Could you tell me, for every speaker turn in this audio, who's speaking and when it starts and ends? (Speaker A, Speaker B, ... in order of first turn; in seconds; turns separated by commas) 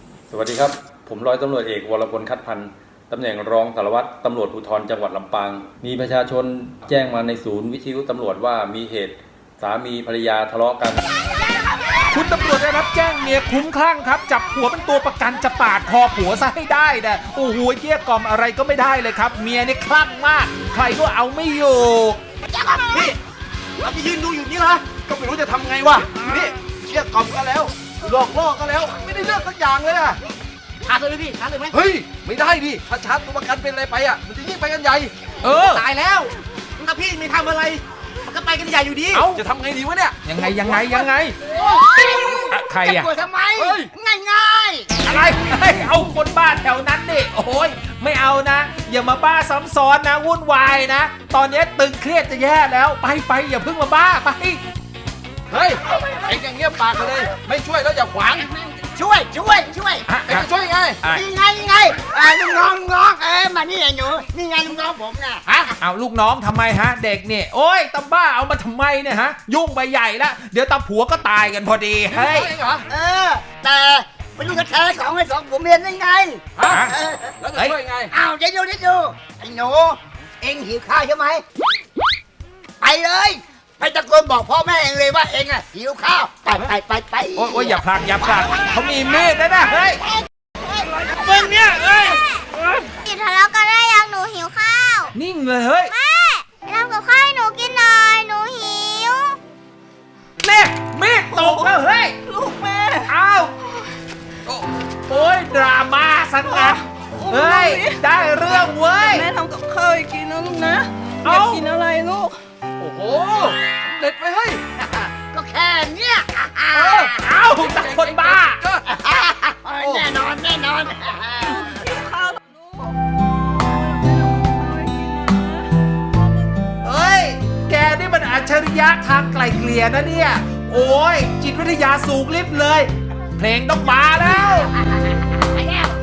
Speaker A: 0.3-11.1, Speaker B: 12.1-22.2, Speaker C: 23.9-30.2, Speaker C: 31.7-35.1, Speaker B: 35.4-35.9, Speaker C: 37.1-37.8, Speaker B: 39.1-39.4, Speaker C: 39.3-40.5, Speaker B: 40.2-41.4, Speaker D: 41.5-44.9, Speaker B: 42.5-43.1, Speaker C: 43.6-43.9, Speaker B: 45.0-54.6, Speaker C: 55.5-58.5, Speaker D: 59.0-60.1, Speaker B: 60.1-60.5, Speaker C: 60.2-61.0, Speaker D: 61.1-65.7, Speaker B: 65.5-72.5, Speaker C: 72.1-72.8, Speaker D: 72.9-77.3, Speaker C: 76.6-78.1, Speaker B: 76.7-76.9, Speaker D: 78.1-81.4, Speaker D: 82.8-88.7, Speaker B: 87.4-90.0, Speaker D: 90.7-91.5, Speaker B: 91.3-92.0, Speaker E: 91.7-92.5, Speaker C: 91.8-92.2, Speaker E: 93.0-95.1, Speaker B: 95.1-95.9, Speaker E: 95.9-99.4, Speaker B: 100.4-102.2, Speaker F: 101.3-101.7, Speaker F: 102.3-103.1, Speaker B: 103.1-103.5, Speaker C: 104.5-104.8, Speaker B: 105.1-109.3, Speaker F: 106.5-112.4, Speaker B: 111.2-111.7, Speaker C: 112.8-114.6, Speaker D: 114.8-117.3, Speaker C: 116.7-118.8, Speaker B: 117.0-118.6, Speaker D: 118.9-121.7, Speaker C: 119.8-120.1, Speaker F: 121.5-123.0, Speaker F: 123.7-126.2, Speaker B: 126.8-134.7, Speaker D: 135.5-135.8